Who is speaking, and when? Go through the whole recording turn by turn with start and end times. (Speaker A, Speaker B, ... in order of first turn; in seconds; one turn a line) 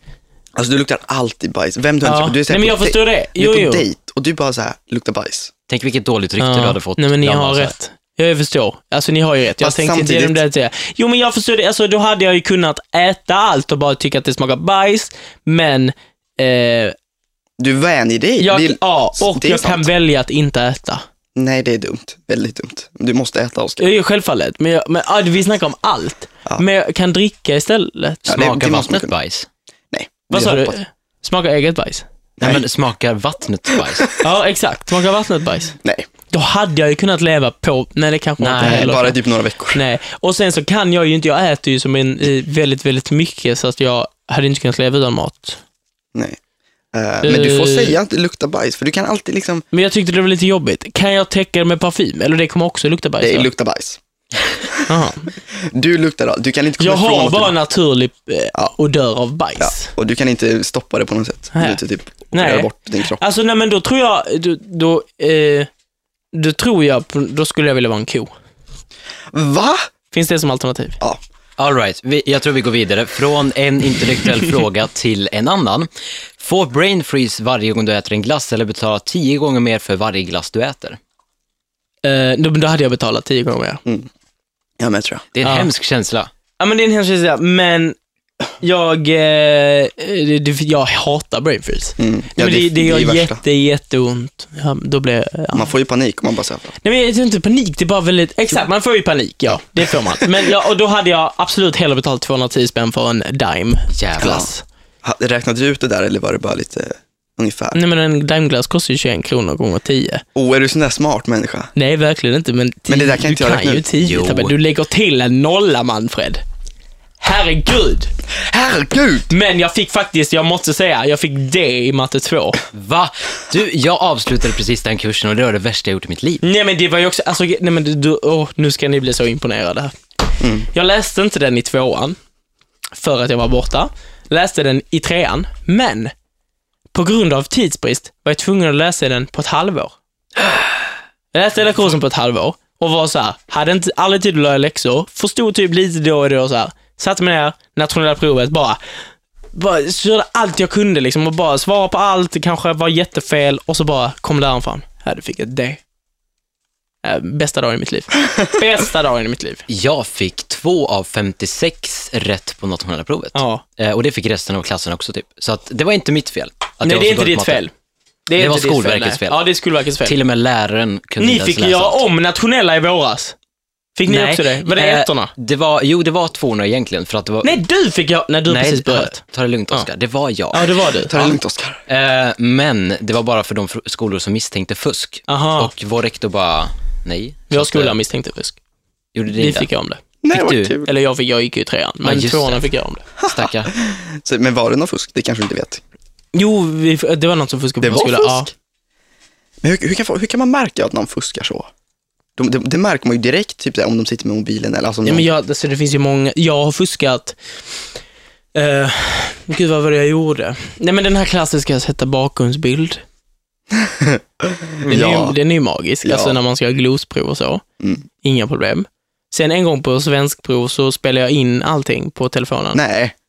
Speaker A: 0.6-5.5
Speaker B: 2.0-3.8
Speaker C: 5.7-7.7
Speaker B: 6.4-16.9
Speaker A: 9.6-10.4
Speaker A: 17.6-19.9
Speaker B: 18.4-21.0
Speaker A: 21.4-23.9
Speaker B: 23.8-28.3
Speaker A: 28.3-29.1
Speaker C: 28.3-29.5
Speaker A: 29.9-30.8
Speaker B: 30.3-32.0
Speaker A: 32.4-32.6
Speaker C: 32.4-34.1
Speaker A: 33.8-34.0
Speaker B: 34.2-35.7
Speaker B: 36.3-39.2
Speaker C: 38.4-39.0
Speaker A: 38.6-39.8
Speaker B: 39.7-45.6
Speaker A: 46.1-46.4
Speaker A: 46.9-49.6
Speaker B: 47.2-48.0
Speaker B: 49.7-53.5
Speaker A: 53.2-54.8
Speaker B: 54.9-55.3
Speaker A: 55.5-57.5
Speaker B: 56.8-59.9
Speaker A: 59.6-63.2
Speaker B: 61.5-61.8
Speaker B: 62.3-65.7
Speaker B: 66.3-68.3
Speaker A: 69.3-69.9
Speaker B: 70.1-71.0
Speaker C: 71.6-81.0
Speaker B: 82.0-83.8
Speaker A: 84.8-85.2
Speaker C: 85.3-86.3
Speaker B: 85.4-85.7
Speaker B: 86.6-88.0
Speaker B: 88.6-95.7
Speaker A: 92.0-93.4
Speaker A: 95.5-96.7
Speaker B: 96.8-104.6
Speaker C: 103.9-104.4
Speaker A: 104.2-104.5
Speaker A: 105.0-107.8
Speaker B: 107.7-110.2
Speaker A: 110.3-111.7
Speaker B: 111.7-116.4
Speaker A: 112.9-113.9
Speaker C: 114.0-114.5
Speaker B: 117.2-118.1
Speaker A: 118.3-119.3
Speaker B: 119.3-122.6
Speaker C: 122.7-126.4
Speaker B: 126.4-129.9
Speaker A: 130.4-130.7
Speaker B: 130.7-132.2
Speaker B: 132.9-136.1
Speaker B: 136.9-139.9
Speaker B: 141.3-148.8
Speaker B: 149.5-155.8
Speaker B: 157.0-159.6
Speaker C: 159.7-167.6
Speaker B: 163.3-163.6
Speaker B: 166.8-167.7
Speaker B: 168.3-170.2
Speaker C: 168.4-169.4
Speaker C: 170.0-172.1
Speaker B: 171.2-173.3
Speaker B: 173.9-175.3
Speaker C: 174.1-177.6
Speaker B: 177.4-179.2
Speaker C: 178.5-180.7
Speaker B: 180.5-181.3
Speaker A: 181.0-181.8
Speaker C: 181.9-187.9
Speaker B: 185.3-185.7
Speaker B: 187.5-188.6
Speaker C: 189.1-189.7
Speaker B: 189.3-190.0
Speaker A: 190.2-190.9
Speaker C: 190.3-190.7
Speaker B: 190.8-193.0
Speaker C: 192.0-192.6
Speaker A: 193.2-195.8
Speaker C: 193.2-193.7
Speaker B: 196.3-198.5
Speaker A: 197.8-198.5
Speaker A: 199.6-201.7
Speaker A: 202.4-205.2
Speaker B: 205.0-207.4
Speaker B: 208.5-213.0
Speaker A: 213.7-215.4
Speaker B: 214.9-217.6
Speaker A: 216.0-216.4
Speaker B: 218.2-222.8
Speaker A: 222.7-223.1